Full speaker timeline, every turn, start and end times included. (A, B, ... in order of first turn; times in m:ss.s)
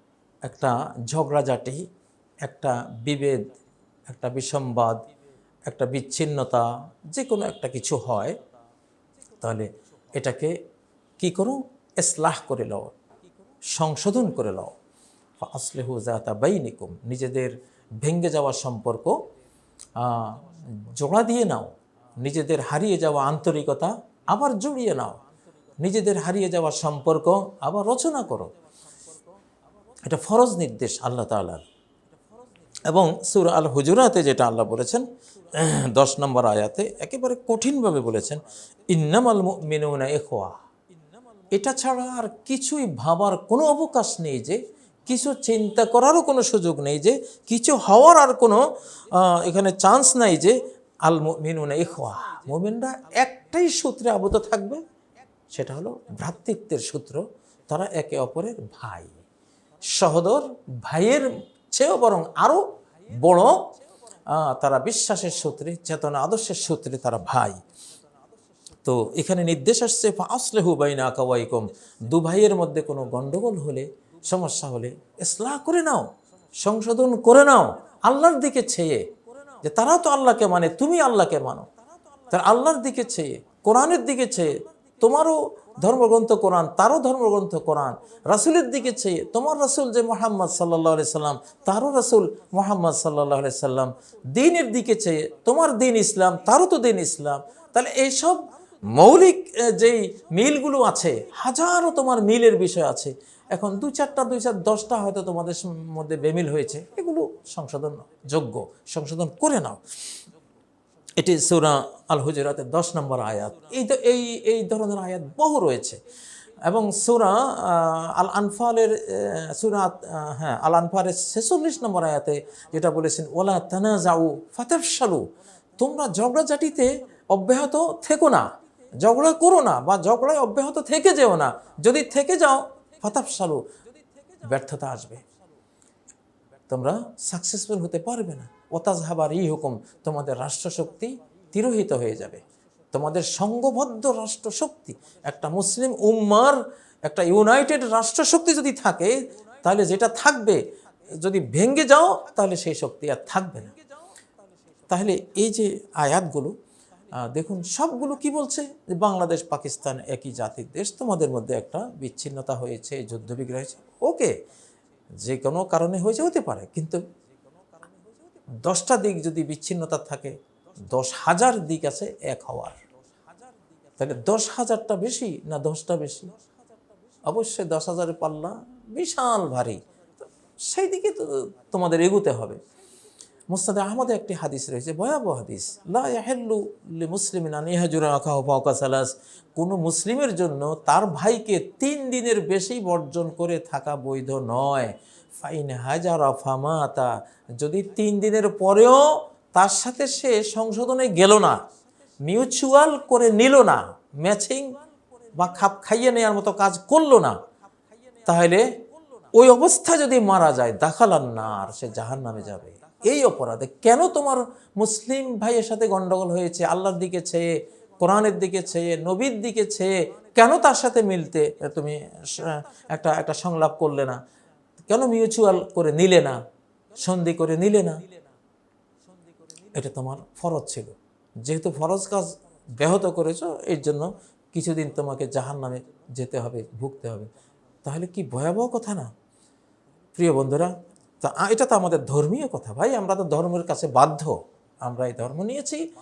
0:00.4-0:01.9 A
0:02.4-0:03.5 A
0:04.1-0:05.0 A
0:05.7-0:08.4 A
0:09.4-0:10.6 A
0:11.2-0:12.9 A
0:13.7-0:14.7 A
0:15.4-0:19.3 A
0:20.0-0:25.2 A
0:25.8-0:28.5 A
0:30.0-0:31.6 A
0:32.9-0:40.6 A
0:41.5-0:54.8 A
0:55.5-0:59.2 A
0:59.8-1:03.8 A
1:04.3-1:07.6 A
1:08.8-1:19.1 A
1:19.6-1:21.7 A
1:22.3-1:49.8 A
1:51.2-1:56.0 A
1:56.6-2:08.5 A
2:09.0-2:13.7 A
2:14.4-2:15.2 A
2:16.7-2:30.6 A
2:31.2-2:33.7 A
2:34.9-2:36.6 A
2:37.1-2:44.4 A
2:45.2-2:47.0 A
2:48.5-2:50.4 A
2:50.9-2:52.8 A
2:54.0-2:56.3 A
2:57.2-2:59.8 A
3:00.6-3:02.6 A
3:03.5-3:21.7 A
3:22.2-3:24.8 A
3:25.3-3:27.4 A
3:28.2-3:28.7 A
3:29.3-3:44.2 A
3:44.9-3:46.4 A
3:47.0-3:48.0 A
3:49.7-3:57.3 A
3:57.8-3:59.1 A
4:00.2-4:05.9 A